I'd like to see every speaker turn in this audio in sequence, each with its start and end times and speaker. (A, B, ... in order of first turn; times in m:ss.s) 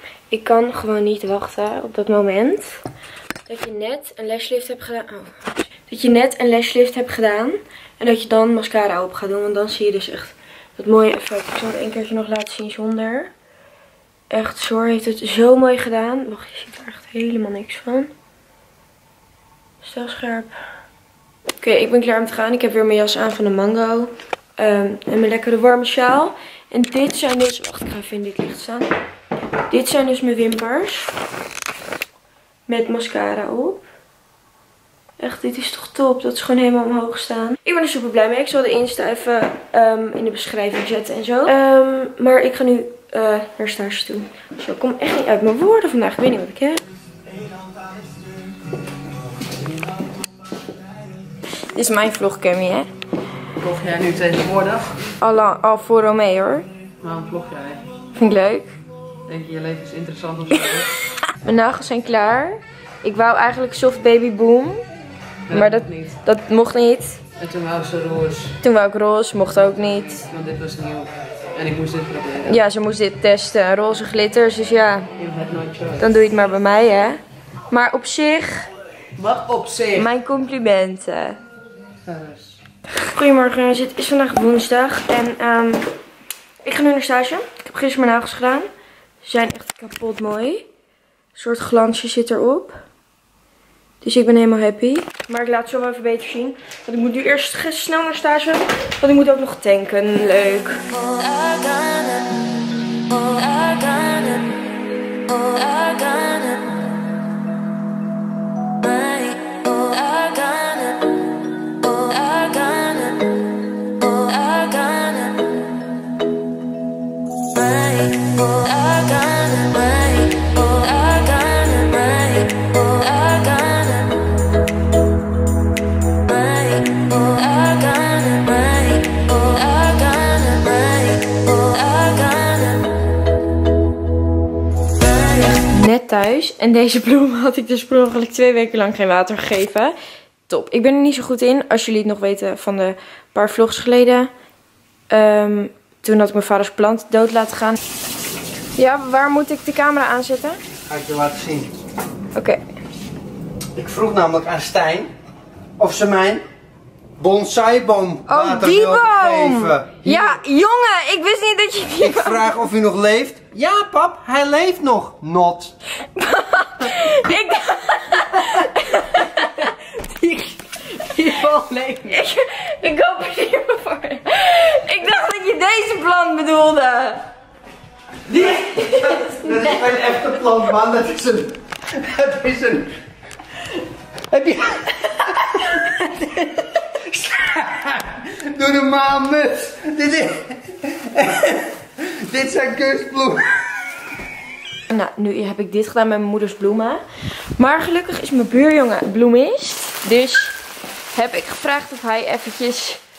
0:00.3-0:02.8 A
0:03.5-0:13.3 A
0:14.3-0:18.1 A
0:19.8-0:20.5 A
0:21.6-0:28.9 A
0:29.7-0:31.1 A
0:32.7-0:33.8 A
0:35.2-0:46.8 A
0:51.7-0:52.9 A
0:53.6-0:55.0 B
0:55.2-0:56.7 A
0:57.0-0:57.8 B
0:58.2-0:58.8 A
0:59.3-1:00.9 B
1:01.3-1:04.8 A
1:05.5-1:06.1 B
1:05.5-1:07.2 A
1:07.4-1:08.6 B
1:08.6-1:10.3 A
1:10.3-1:12.6 B
1:12.4-1:15.1 A
1:15.2-1:16.1 B
1:16.0-1:18.7 A
1:19.2-1:20.0 B
1:19.9-1:21.4 A
1:22.0-1:22.6 B
1:23.0-1:25.8 A
1:26.6-1:28.7 A
1:29.2-1:30.6 A
1:31.3-1:32.8 A
1:34.0-1:40.8 A
2:15.1-2:20.0 A
2:20.5-2:24.3 A
2:25.1-2:27.8 A
2:28.8-2:30.6 A
2:30.9-2:31.7 C
2:32.3-2:32.6 A
2:33.8-2:35.1 C
2:35.8-2:36.4 C
2:37.2-2:40.4 C
2:38.3-2:42.5 A
2:42.0-2:45.7 C
2:46.1-2:49.7 A
2:50.0-2:52.1 B
2:52.0-2:57.2 A
2:58.3-3:02.9 C
3:04.3-3:13.4 C
3:14.9-3:17.0 A
3:17.6-3:20.6 A
3:21.1-3:23.0 A